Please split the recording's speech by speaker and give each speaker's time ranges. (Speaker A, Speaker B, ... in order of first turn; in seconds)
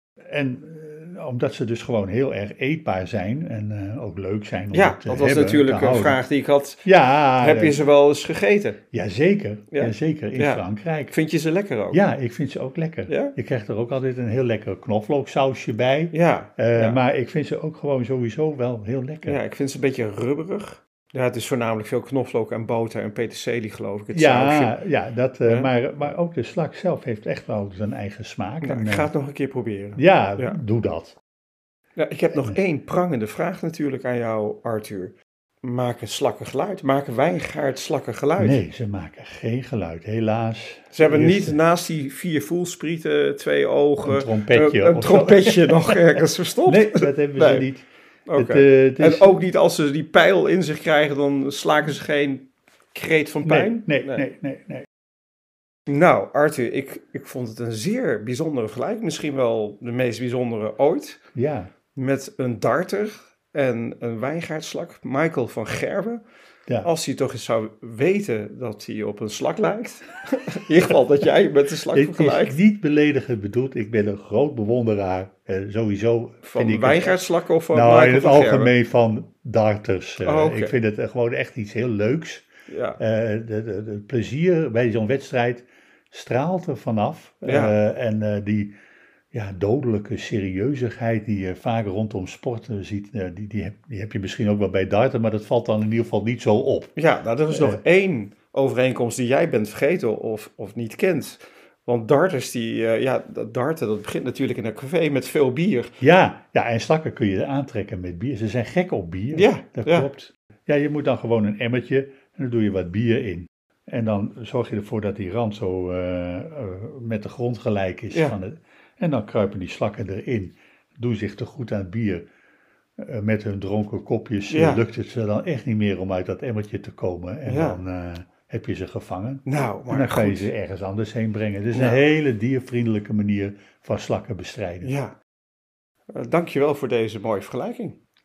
Speaker A: 0.3-6.2, 6.8-7.8, 8.9-11.1, 11.9-19.4, 24.1-29.1, 30.0-31.2, 32.3-32.6, 38.4-41.6, 44.0-49.4, 53.4-54.9, 61.4-61.7, 71.9-82.5, 83.0-88.7, 89.3-96.9, 97.5-97.8, 106.0-122.3, 123.0-134.9
Speaker B: 4.7-6.8, 7.4-8.8, 9.7-12.0, 13.1-13.4, 16.1-17.0, 19.3-24.8, 28.6-30.6, 32.0-38.6, 40.9-47.7, 48.3-54.2, 55.9-61.2, 62.0-66.2, 66.8-72.6, 76.4-78.7, 80.2-80.8, 82.7-83.0, 87.4-87.8, 97.0-105.9, 109.3-110.1, 118.1-118.4, 124.5-124.8, 127.5-127.8, 129.5-130.5, 131.7-132.0, 134.8-135.2, 136.1-138.0